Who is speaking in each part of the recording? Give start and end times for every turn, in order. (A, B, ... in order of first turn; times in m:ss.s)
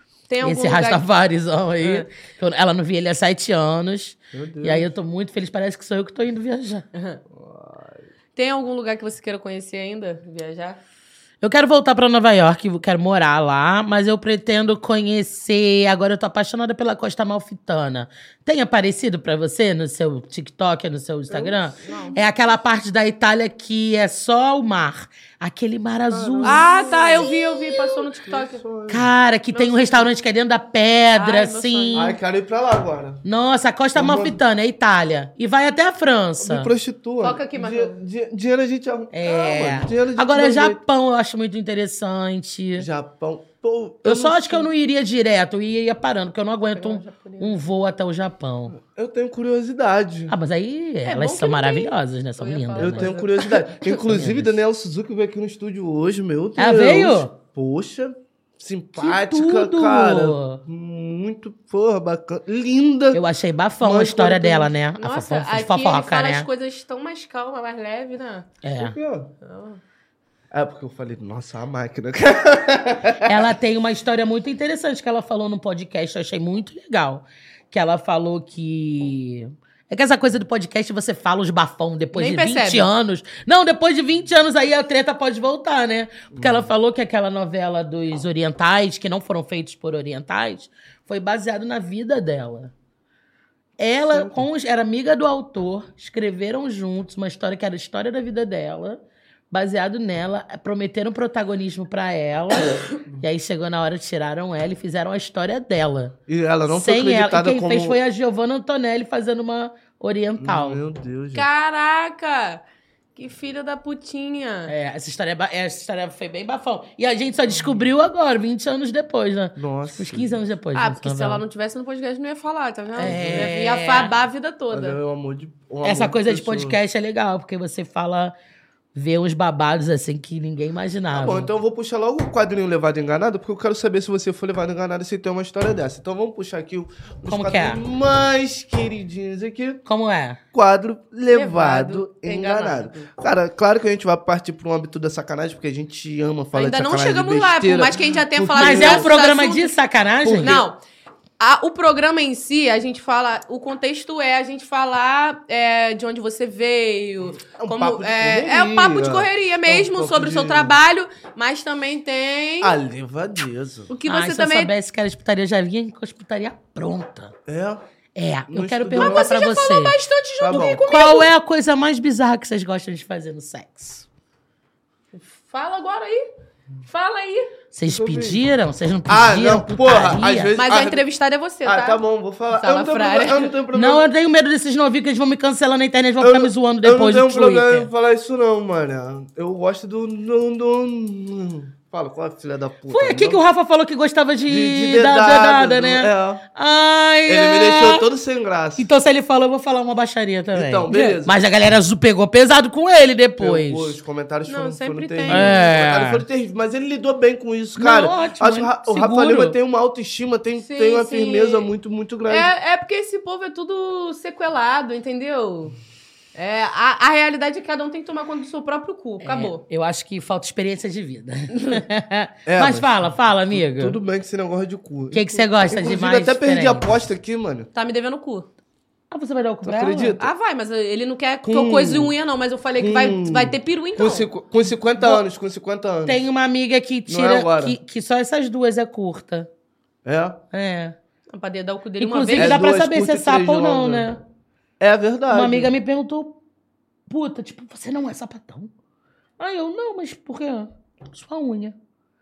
0:00.3-0:01.0 A
0:00.4-0:06.8 B
0:01.8-0:02.1 A
0:04.3-0:04.9 C
0:06.9-0:07.2 A
0:07.3-0:08.1 C
0:08.4-0:10.8 A
0:11.4-0:27.3 B
0:21.3-0:22.0 C
0:21.8-0:22.2 A
0:26.1-0:29.1 C
0:26.4-0:28.6 A
0:28.9-0:32.2 B
0:29.5-0:30.1 A
0:31.1-0:32.1 A
0:32.0-0:33.2 C
0:33.2-0:36.7 B
0:34.0-0:34.4 C
0:36.4-0:40.8 C
0:37.2-0:38.0 A
0:39.1-0:42.9 B
0:42.8-0:44.7 C
0:44.0-0:48.8 B
0:46.7-0:47.6 A
0:48.7-0:50.3 C
0:50.3-0:53.2 B
0:51.1-0:53.6 A
0:52.8-1:03.2 C
0:54.0-0:54.5 B
0:56.6-0:57.3 B
0:59.0-1:00.6 B
1:03.1-1:06.5 B
1:03.8-1:04.7 C
1:05.0-1:08.5 A
1:08.6-1:09.0 B
1:08.8-1:09.3 C
1:09.4-1:09.8 A
1:10.5-1:13.5 C
1:13.2-1:32.7 B
1:22.1-1:22.9 A
1:26.3-1:26.7 C
1:33.8-1:39.0 B
1:34.1-1:34.5 C
1:39.5-1:46.2 B
1:46.3-1:48.0 C
1:46.7-1:50.8 B
1:50.4-1:51.5 C
1:51.3-1:52.6 A
1:53.2-1:54.7 A
1:54.7-2:01.4 B
1:59.6-2:00.4 C
2:00.8-2:05.0 A
2:03.0-2:04.1 B
2:03.0-2:03.5 C
2:04.7-2:06.8 C
2:05.8-2:08.3 B
2:09.0-2:11.5 B
2:11.1-2:19.8 C
2:17.3-2:17.8 B
2:19.9-2:20.4 B
2:20.5-2:29.1 C
2:21.3-2:23.1 A
2:26.6-2:29.8 A
2:28.6-2:30.6 B
2:30.2-2:30.6 C
2:30.4-2:30.8 A
2:31.4-2:42.8 A
2:37.5-2:40.8 C
2:42.6-2:43.9 C
2:43.9-2:44.7 A
2:44.1-2:47.3 B
2:47.5-2:47.8 C
2:48.2-2:50.0 B
2:48.5-2:49.3 C
2:49.0-2:51.3 A
2:50.4-2:50.9 C
2:50.5-2:54.1 B
2:55.2-2:56.2 A
2:56.8-2:57.5 A
2:57.7-3:00.5 B
2:57.9-2:58.4 C
2:59.1-3:01.0 C
3:00.6-3:02.0 A
3:01.6-3:04.1 C
3:02.5-3:03.5 A
3:03.7-3:07.9 B
3:06.2-3:13.4 C
3:12.9-3:18.1 B
3:14.5-3:16.4 C
3:17.3-3:18.9 C
3:18.8-3:24.0 B
3:20.5-3:21.4 C
3:20.9-3:21.2 A
3:23.4-3:32.5 C
3:24.5-3:25.7 A
3:25.3-3:26.2 B
3:27.8-3:29.6 B
3:30.6-3:31.7 A
3:32.3-3:35.8 A
3:36.4-3:39.6 A
3:39.2-3:44.0 B
3:41.5-3:41.8 A
3:42.5-3:47.7 C
3:45.1-3:46.9 B
3:47.8-3:48.5 A
3:49.1-3:50.2 B
3:49.6-3:50.3 C
3:50.2-3:54.3 A
3:51.4-3:52.1 C
3:52.8-3:56.2 C
3:56.1-3:59.5 B
3:57.1-3:57.8 C
4:00.0-4:00.4 C
4:00.5-4:01.0 B
4:01.3-4:02.6 A
4:02.0-4:04.2 B
4:02.4-4:04.1 C
4:04.8-4:05.7 C
4:05.3-4:06.4 B
4:07.1-4:08.7 B
4:09.4-4:11.8 B